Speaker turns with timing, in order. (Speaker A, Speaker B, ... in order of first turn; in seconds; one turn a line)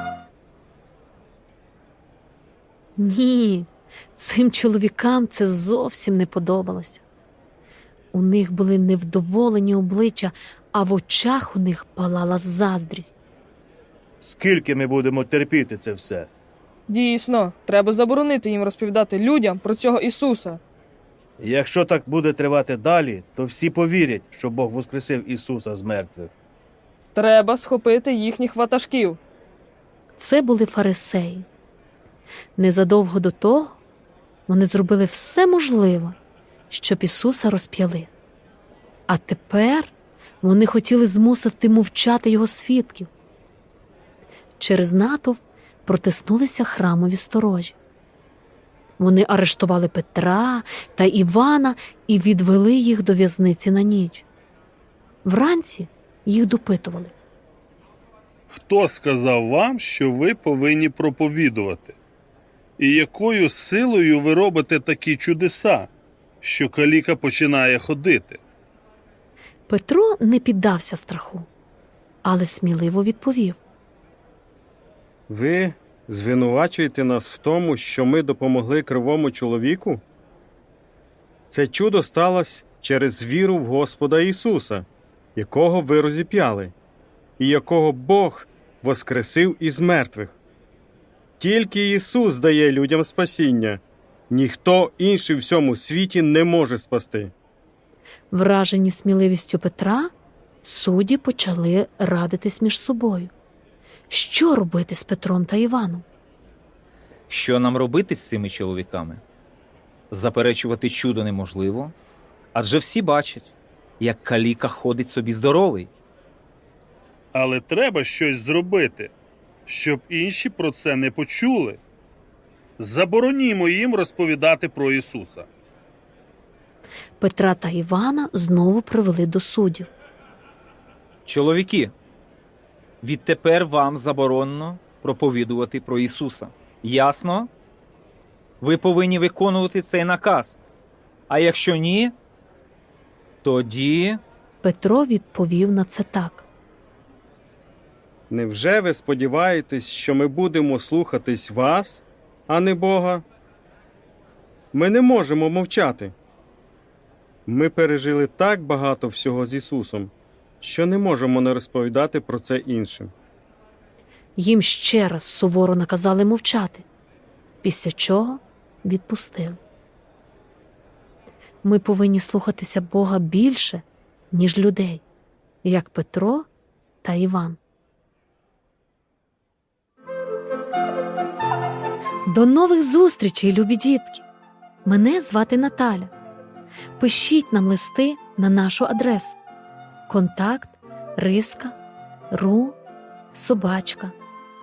Speaker A: 3.0-7.0
Speaker A: 8.1-13.2
Speaker B: 14.2-16.3
Speaker C: 16.9-20.6
Speaker B: 21.4-26.3
Speaker C: 27.1-29.2
Speaker A: 30.2-31.5
Speaker A: 32.6-33.8
Speaker A: 34.5-36.2
Speaker A: 36.7-38.1
Speaker A: 39.1-43.1
Speaker A: 44.6-47.8
Speaker A: 49.0-54.2
Speaker A: 55.2-57.1
Speaker D: 58.5-62.0
Speaker D: 62.8-65.9
Speaker D: 66.4-68.4
Speaker A: 69.7-71.5
Speaker A: 72.2-73.6
Speaker E: 75.3-80.0
Speaker E: 81.5-86.7
Speaker E: 87.4-90.3
Speaker E: 91.4-97.3
Speaker A: 98.3-100.1
Speaker A: 100.6-103.3
Speaker A: 104.1-106.0
Speaker F: 107.3-109.2
Speaker F: 110.1-112.0
Speaker F: 112.5-115.9
Speaker D: 117.3-119.1
Speaker D: 119.7-121.8
Speaker D: 122.8-125.5
Speaker A: 127.2-129.9
Speaker F: 131.2-131.9
Speaker F: 133.0-137.5
Speaker F: 138.6-140.6
Speaker F: 141.3-142.2
Speaker F: 143.4-144.2
Speaker A: 144.6-146.5
Speaker E: 148.3-153.2
Speaker E: 154.7-156.1
Speaker E: 157.5-163.1
Speaker A: 164.4-166.9
Speaker A: 167.6-169.6
Speaker A: 171.6-175.0
Speaker A: 175.6-176.5
Speaker A: 177.0-177.6
Speaker A: 182.3-184.2
Speaker A: 184.8-186.1
Speaker A: 187.0-189.4
Speaker A: 190.1-191.8
Speaker A: 192.3-192.8
Speaker A: 193.3-194.2